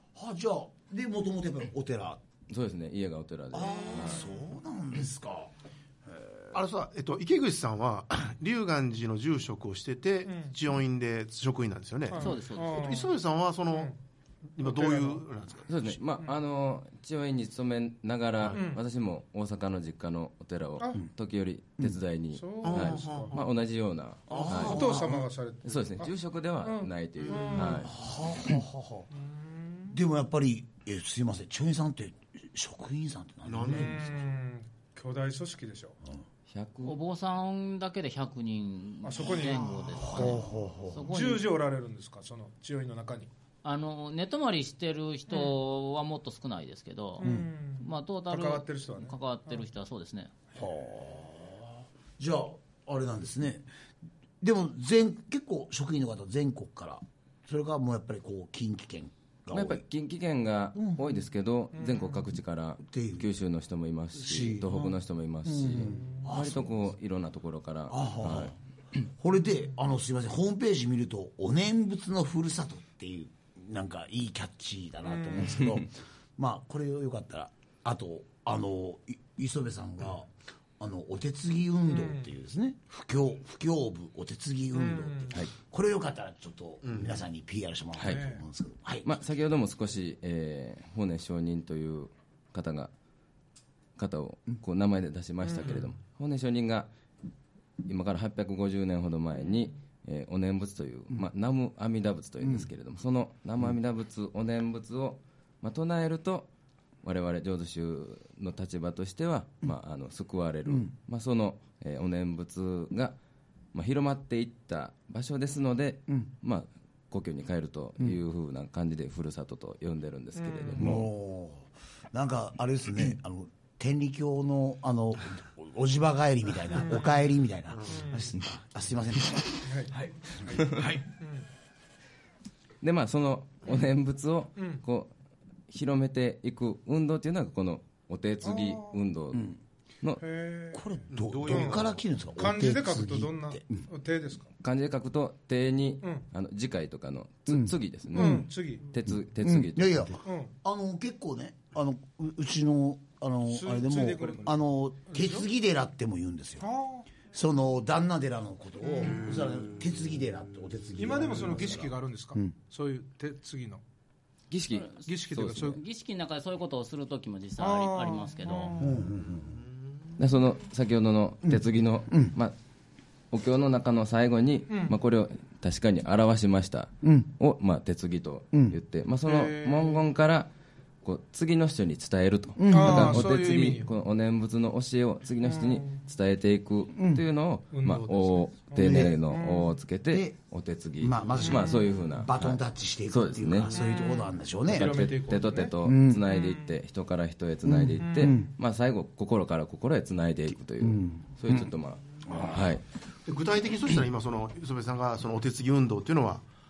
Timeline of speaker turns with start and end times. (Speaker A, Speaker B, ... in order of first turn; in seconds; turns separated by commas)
Speaker A: 0.1-2.2, Speaker B: 2.5-4.3, Speaker A: 3.5-5.5, Speaker A: 6.1-6.6, Speaker C: 6.5-13.9, Speaker D: 10.3-10.5, Speaker D: 12.1-13.1, Speaker E: 12.2-12.9, Speaker D: 13.7-14.0, Speaker C: 14.6-16.0, Speaker D: 14.6-15.2, Speaker B: 15.7-24.8, Speaker D: 18.5-18.8, Speaker D: 22.3-23.4, Speaker C: 22.6-23.5, Speaker A: 24.3-25.3, Speaker C: 24.3-24.9, Speaker D: 24.4-26.1, Speaker B: 25.6-28.0, Speaker D: 26.6-28.0, Speaker C: 27.2-27.6, Speaker A: 27.8-29.1, Speaker D: 29.2-30.0, Speaker A: 29.9-34.1, Speaker C: 33.5-34.1, Speaker D: 33.6-36.0, Speaker B: 36.5-37.0, Speaker E: 36.8-41.5, Speaker D: 39.0-40.5, Speaker A: 40.0-41.1, Speaker D: 41.1-43.3, Speaker E: 43.6-50.3, Speaker D: 47.2-49.1, Speaker A: 47.2-47.5, Speaker A: 50.5-53.7, Speaker A: 54.4-59.8, Speaker B: 59.5-68.5, Speaker A: 60.8-61.2, Speaker D: 61.8-62.2, Speaker A: 62.9-63.3, Speaker A: 64.2-66.8, Speaker D: 65.9-66.2, Speaker A: 67.9-89.2, Speaker D: 75.0-75.7, Speaker B: 75.6-75.9, Speaker D: 81.9-82.3, Speaker D: 84.7-85.4, Speaker C: 86.8-87.2, Speaker B: 88.0-88.2, Speaker D: 88.0-88.4, Speaker B: 89.0-92.9, Speaker B: 94.0-96.9, Speaker D: 95.5-95.8, Speaker B: 97.8-106.5, Speaker B: 107.0-113.2, Speaker B: 113.7-121.1, Speaker D: 120.4-120.8, Speaker A: 120.8-131.0, Speaker D: 126.8-127.2, Speaker C: 127.8-128.0, Speaker D: 127.9-128.3, Speaker D: 129.6-131.5, Speaker B: 130.6-130.9, Speaker B: 132.8-135.1, Speaker D: 134.6-134.8, Speaker B: 135.7-140.2, Speaker D: 138.4-139.0, Speaker A: 139.3-139.6, Speaker D: 140.2-140.8, Speaker A: 140.7-143.9, Speaker C: 141.1-142.0, Speaker D: 141.4-141.9, Speaker D: 142.4-144.5, Speaker B: 144.6-150.1, Speaker A: 147.5-148.5, Speaker D: 148.1-148.9, Speaker A: 149.1-156.7, Speaker D: 150.2-150.5, Speaker D: 153.5-154.6, Speaker D: 155.1-155.5, Speaker D: 156.6-157.1, Speaker A: 157.3-162.5, Speaker D: 158.8-159.2, Speaker D: 161.0-163.8, Speaker B: 164.5-165.8, Speaker E: 164.7-165.1, Speaker D: 165.1-165.8, Speaker E: 165.7-168.8, Speaker D: 167.6-169.0, Speaker A: 168.8-169.6, Speaker C: 169.4-169.8, Speaker B: 170.2-172.5, Speaker A: 171.5-172.3, Speaker B: 173.3-180.5, Speaker A: 177.0-177.3, Speaker D: 179.2-180.0, Speaker B: 181.0-193.8, Speaker A: 182.6-183.3, Speaker D: 182.7-183.9, Speaker D: 185.4-185.9, Speaker A: 187.0-187.2, Speaker D: 187.7-189.8, Speaker A: 188.8-189.2, Speaker A: 190.1-190.4, Speaker A: 191.0-195.1, Speaker D: 191.4-191.9, Speaker D: 193.7-195.8, Speaker B: 194.7-202.8, Speaker A: 195.8-196.2, Speaker D: 196.3-196.7, Speaker A: 197.7-198.5, Speaker D: 198.0-198.4, Speaker A: 200.8-201.7, Speaker A: 202.2-202.8, Speaker C: 203.2-206.4